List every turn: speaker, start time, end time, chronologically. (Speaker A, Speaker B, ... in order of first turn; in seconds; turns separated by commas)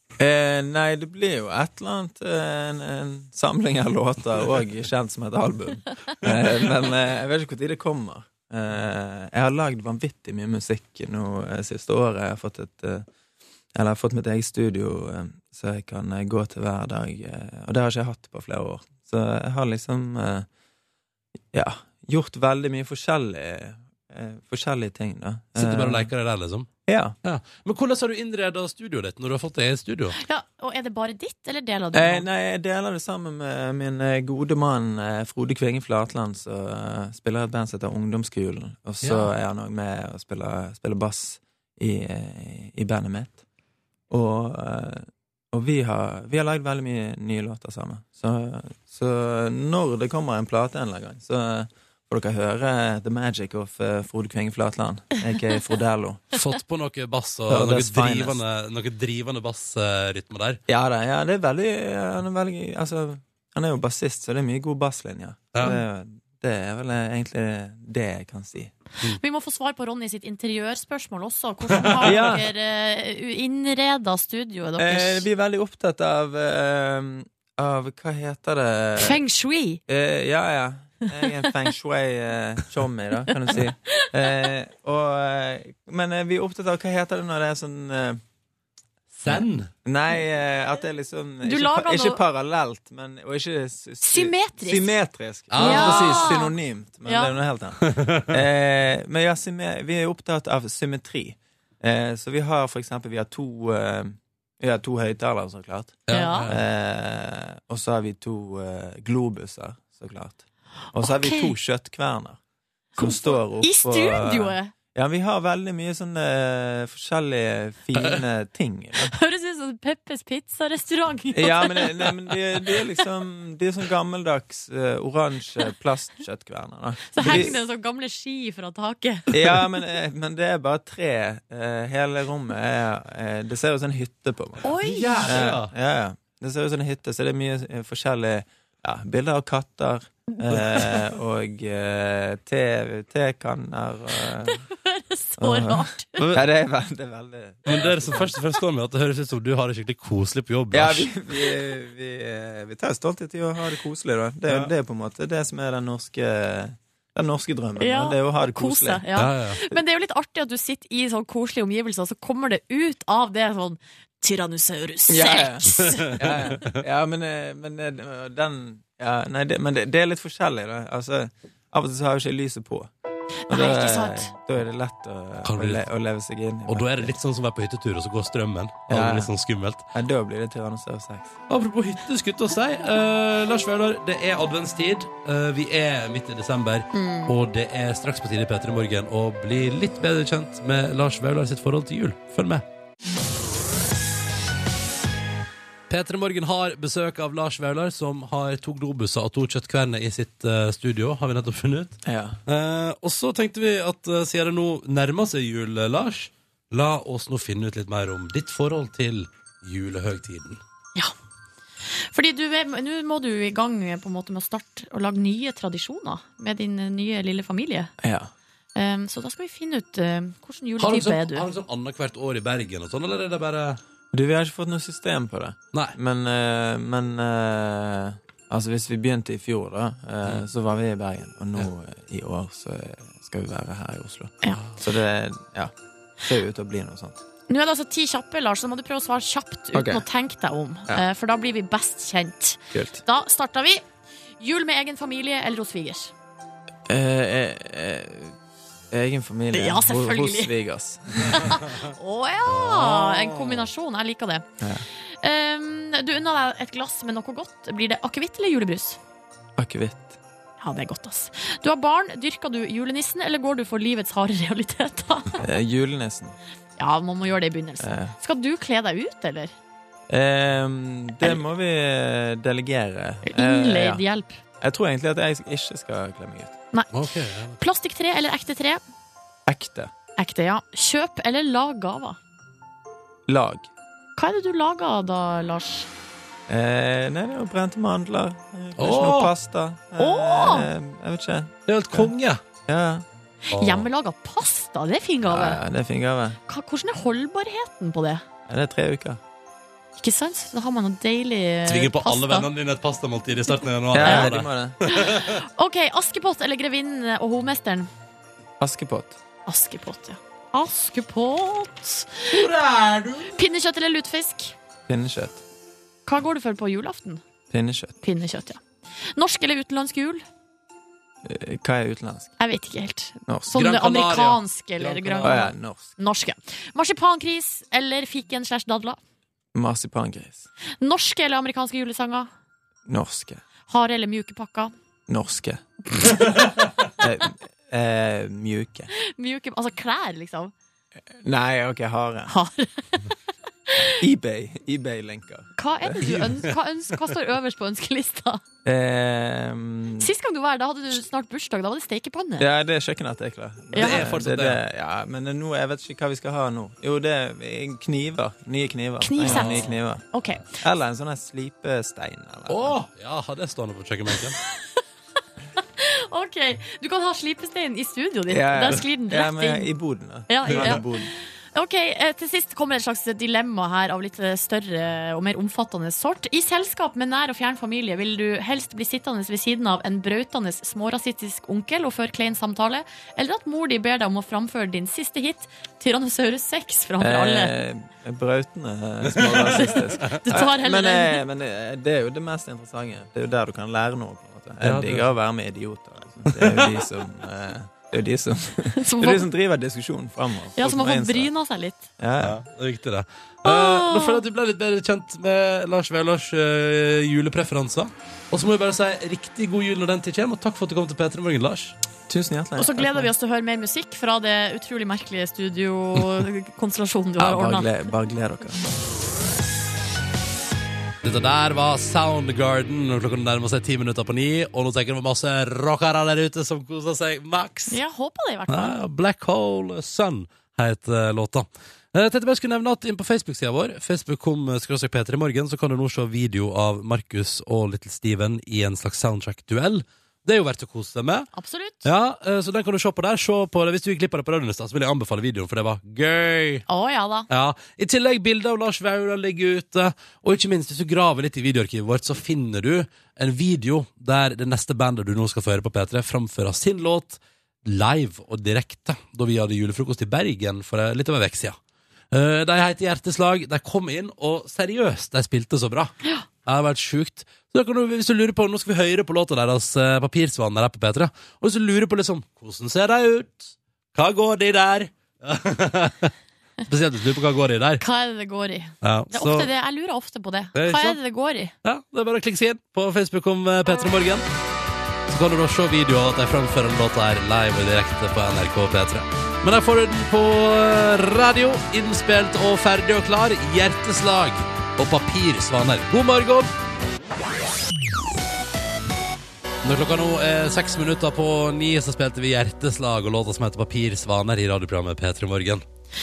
Speaker A: 0.2-13.1, Speaker A: 13.7-20.5, Speaker A: 21.5-26.1, Speaker B: 25.6-26.7, Speaker A: 26.9-27.1, Speaker B: 27.2-30.2, Speaker C: 30.2-32.2, Speaker A: 31.9-43.4, Speaker B: 39.0-39.3, Speaker A: 44.1-56.3, Speaker B: 56.3-60.6, Speaker A: 57.5-58.4, Speaker A: 60.7-68.7, Speaker C: 69.0-75.3, Speaker B: 71.8-72.3, Speaker A: 72.0-72.5, Speaker A: 74.8-79.2, Speaker C: 79.0-79.8, Speaker A: 79.9-88.2, Speaker C: 83.5-84.0, Speaker B: 89.1-89.7, Speaker A: 89.3-112.4, Speaker C: 91.4-92.2, Speaker C: 94.0-95.0, Speaker B: 95.5-96.3, Speaker C: 95.5-96.5, Speaker C: 97.1-97.3, Speaker B: 97.9-98.3, Speaker B: 106.1-106.6, Speaker C: 106.1-106.5, Speaker C: 111.0-111.5, Speaker A: 113.0-119.1, Speaker C: 113.0-114.7, Speaker C: 119.0-122.2, Speaker A: 121.3-127.6, Speaker C: 127.1-129.8, Speaker A: 129.3-144.6, Speaker C: 134.6-135.5, Speaker B: 134.8-135.7, Speaker C: 144.4-146.2, Speaker A: 145.4-148.4, Speaker B: 147.7-151.1, Speaker A: 150.7-159.1, Speaker C: 157.8-166.3, Speaker B: 159.1-159.6, Speaker A: 165.1-172.9, Speaker B: 165.9-166.8, Speaker C: 173.5-174.3, Speaker A: 173.5-177.1, Speaker B: 175.4-175.8, Speaker B: 176.7-179.9, Speaker A: 178.9-179.3, Speaker A: 179.9-181.3, Speaker B: 181.5-192.6, Speaker C: 186.9-187.3, Speaker B: 195.9-210.6, Speaker A: 202.1-202.4, Speaker C: 211.9-217.9, Speaker A: 218.0-218.3, Speaker C: 218.8-221.5, Speaker B: 220.8-223.8, Speaker A: 224.1-235.7, Speaker A: 236.2-237.2, Speaker C: 237.5-243.8, Speaker A: 239.7-240.0, Speaker A: 242.7-243.0, Speaker C: 244.4-246.1, Speaker A: 246.9-248.3, Speaker A: 248.9-251.6, Speaker C: 249.5-250.5, Speaker C: 251.3-254.4, Speaker B: 252.4-253.7, Speaker C: 255.1-259.0, Speaker A: 259.6-260.2, Speaker C: 260.6-265.4, Speaker A: 265.4-266.4, Speaker C: 266.8-269.5, Speaker A: 267.8-268.1, Speaker A: 270.1-274.0, Speaker C: 273.2-274.4, Speaker A: 274.6-276.6, Speaker B: 276.9-277.6, Speaker C: 277.6-278.8, Speaker A: 279.5-279.9, Speaker C: 280.2-282.2, Speaker A: 283.3-283.7, Speaker C: 284.2-285.9, Speaker A: 286.5-292.1, Speaker B: 288.8-289.3, Speaker C: 290.0-290.7, Speaker B: 291.7-292.4, Speaker A: 292.6-293.1, Speaker C: 293.5-295.6, Speaker B: 293.5-293.9, Speaker A: 295.3-296.4, Speaker C: 296.5-298.2, Speaker A: 298.5-299.2, Speaker C: 300.0-302.5, Speaker B: 301.6-305.4, Speaker A: 303.9-304.8, Speaker C: 304.0-304.3, Speaker C: 304.8-307.9, Speaker A: 308.6-309.2, Speaker C: 309.4-312.4, Speaker B: 312.3-313.4, Speaker C: 313.3-314.6, Speaker A: 314.9-315.4, Speaker C: 316.1-317.2, Speaker A: 317.5-318.0, Speaker C: 318.0-318.6, Speaker C: 319.1-320.2, Speaker A: 321.2-322.3, Speaker C: 322.4-329.0, Speaker A: 323.3-323.6, Speaker B: 323.5-325.5, Speaker A: 325.2-325.9, Speaker A: 329.6-330.5, Speaker C: 330.8-332.3, Speaker A: 332.9-333.4, Speaker C: 333.7-334.7, Speaker A: 335.1-336.2, Speaker A: 337.0-338.9, Speaker C: 338.9-340.5, Speaker A: 341.2-342.3, Speaker C: 342.3-343.2, Speaker A: 344.0-346.1, Speaker C: 345.6-348.4, Speaker B: 346.0-346.5, Speaker A: 348.6-350.1, Speaker C: 350.0-352.5, Speaker A: 352.4-360.1, Speaker C: 353.7-354.1, Speaker B: 353.8-354.6, Speaker C: 359.0-360.6, Speaker B: 359.2-359.7, Speaker A: 360.6-362.8, Speaker B: 362.5-364.4, Speaker C: 365.8-369.7, Speaker A: 368.3-371.1, Speaker C: 370.3-387.5, Speaker B: 370.4-370.8, Speaker A: 387.0-401.3, Speaker B: 389.2-390.4, Speaker C: 389.4-391.2, Speaker B: 394.6-395.1, Speaker B: 396.3-396.6, Speaker C: 398.7-399.3, Speaker C: 400.6-401.9, Speaker A: 402.0-402.4, Speaker B: 402.2-411.8, Speaker C: 403.4-404.2, Speaker A: 412.1-413.1, Speaker C: 412.6-417.7, Speaker A: 417.2-418.6, Speaker B: 421.0-427.8, Speaker C: 427.7-428.8, Speaker B: 428.5-441.3, Speaker C: 441.3-441.9, Speaker B: 441.8-446.6, Speaker C: 446.7-447.3, Speaker B: 447.3-461.6, Speaker B: 462.1-465.9, Speaker B: 466.4-476.1, Speaker B: 476.7-477.8, Speaker C: 477.8-481.5, Speaker B: 478.8-479.5, Speaker B: 480.6-481.0, Speaker B: 481.6-484.3, Speaker B: 485.1-496.6, Speaker B: 499.6-505.6